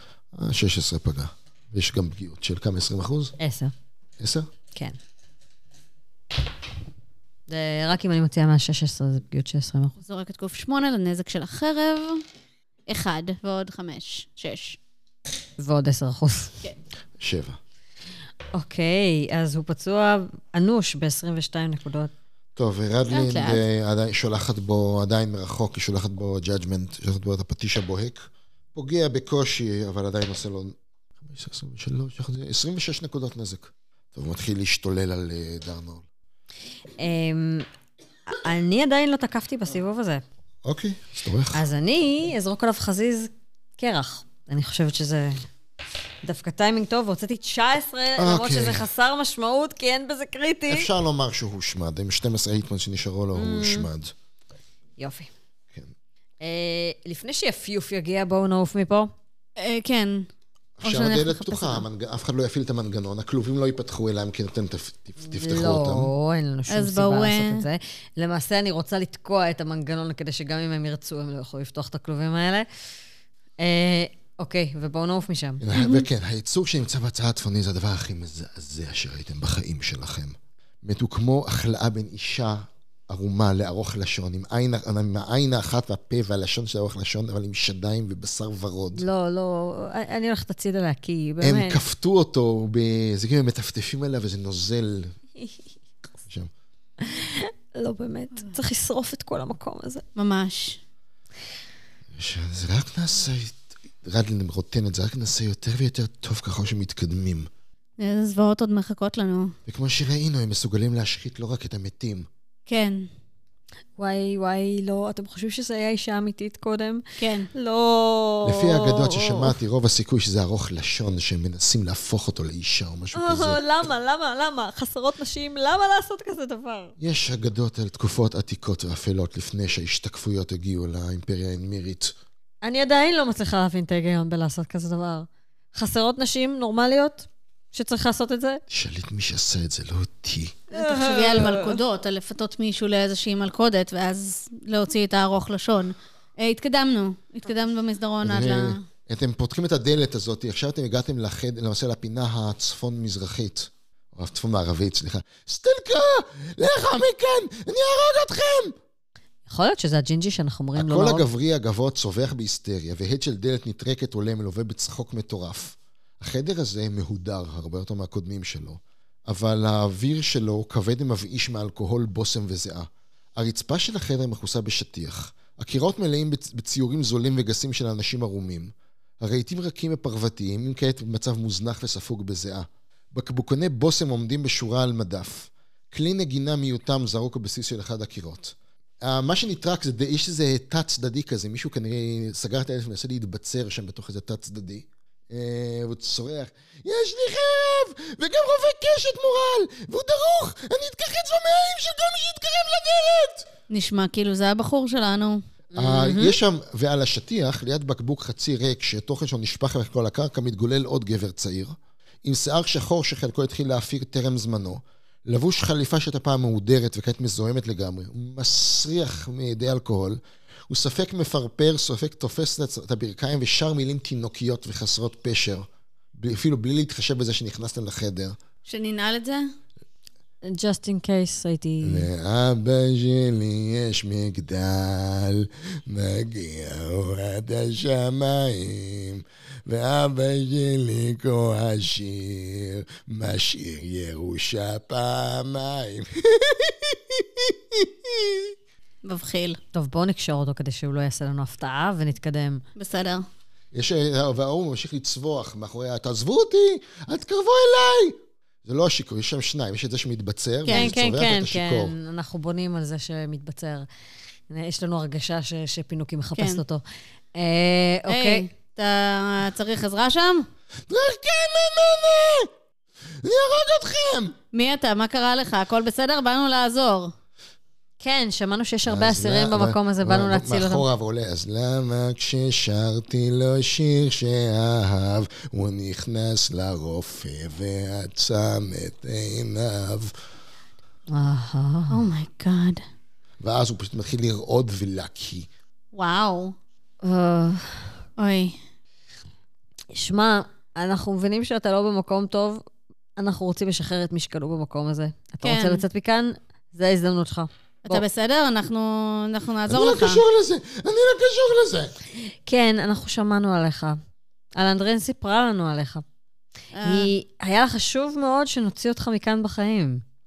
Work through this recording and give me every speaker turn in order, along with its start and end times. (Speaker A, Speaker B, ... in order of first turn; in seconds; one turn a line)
Speaker A: 0.3-3.4
Speaker B: 3.4-3.7
Speaker A: 4.2-4.5
Speaker B: 7.5-9.9
Speaker C: 10.0-12.2
Speaker C: 12.9-14.8
Speaker B: 15.6-16.6
Speaker A: 17.2-17.6
Speaker B: 18.5-22.1
Speaker A: 22.6-28.2
Speaker C: 23.1-23.6
Speaker A: 28.7-36.0
Speaker B: 37.0-37.7
Speaker B: 38.3-40.2
Speaker A: 40.6-41.6
Speaker B: 41.5-45.4
Speaker B: 46.2-50.9
Speaker A: 48.2-48.9
Speaker A: 50.7-54.1
Speaker B: 53.3-53.9
Speaker B: 55.0-55.3
Speaker B: 56.4-59.1
Speaker C: 59.6-60.3
Speaker A: 60.8-66.1
Speaker C: 60.8-61.8
Speaker B: 65.2-72.7
Speaker C: 66.7-67.6
Speaker B: 73.6-75.6
Speaker A: 75.6-89.0
Speaker C: 75.7-76.1
Speaker B: 88.9-91.8
Speaker A: 91.4-95.1
Speaker B: 97.0-100.0
Speaker C: 100.2-100.8
Speaker A: 102.1-107.5
Speaker C: 108.0-109.5
Speaker A: 109.7-112.3
Speaker C: 112.7-113.1
Speaker B: 114.0-119.6
Speaker C: 117.2-117.5
Speaker A: 118.4-123.6
Speaker B: 123.1-126.9
Speaker A: 127.0-132.1
Speaker B: 132.6-138.6
Speaker A: 138.7-140.7
Speaker B: 140.7-141.8
Speaker C: 140.7-148.8
Speaker A: 148.2-158.8
Speaker B: 159.5-161.2
Speaker A: 160.8-203.5
Speaker C: 203.7-205.4
Speaker B: 205.7-206.3
Speaker A: 205.7-228.3
Speaker C: 228.7-229.4
Speaker B: 230.4-232.1
Speaker A: 231.8-248.5
Speaker C: 249.0-249.6
Speaker B: 249.7-252.6
Speaker C: 252.8-253.2
Speaker A: 253.7-261.9
Speaker C: 260.7-260.9
Speaker B: 260.7-263.9
Speaker B: 264.5-268.5
Speaker C: 266.4-266.6
Speaker C: 268.1-270.5
Speaker A: 270.9-272.5
Speaker A: 273.1-274.4
Speaker C: 274.5-277.1
Speaker B: 278.0-280.8
Speaker A: 278.9-290.1
Speaker B: 291.1-292.0
Speaker C: 291.9-292.8
Speaker A: 293.4-295.5
Speaker C: 295.9-296.5
Speaker B: 297.0-298.0
Speaker C: 298.2-298.6
Speaker B: 299.9-302.6
Speaker B: 303.2-308.0
Speaker C: 305.4-305.8
Speaker C: 307.8-310.2
Speaker A: 309.7-312.0
Speaker B: 312.1-314.0
Speaker B: 314.6-316.0
Speaker C: 316.7-317.1
Speaker B: 316.8-320.0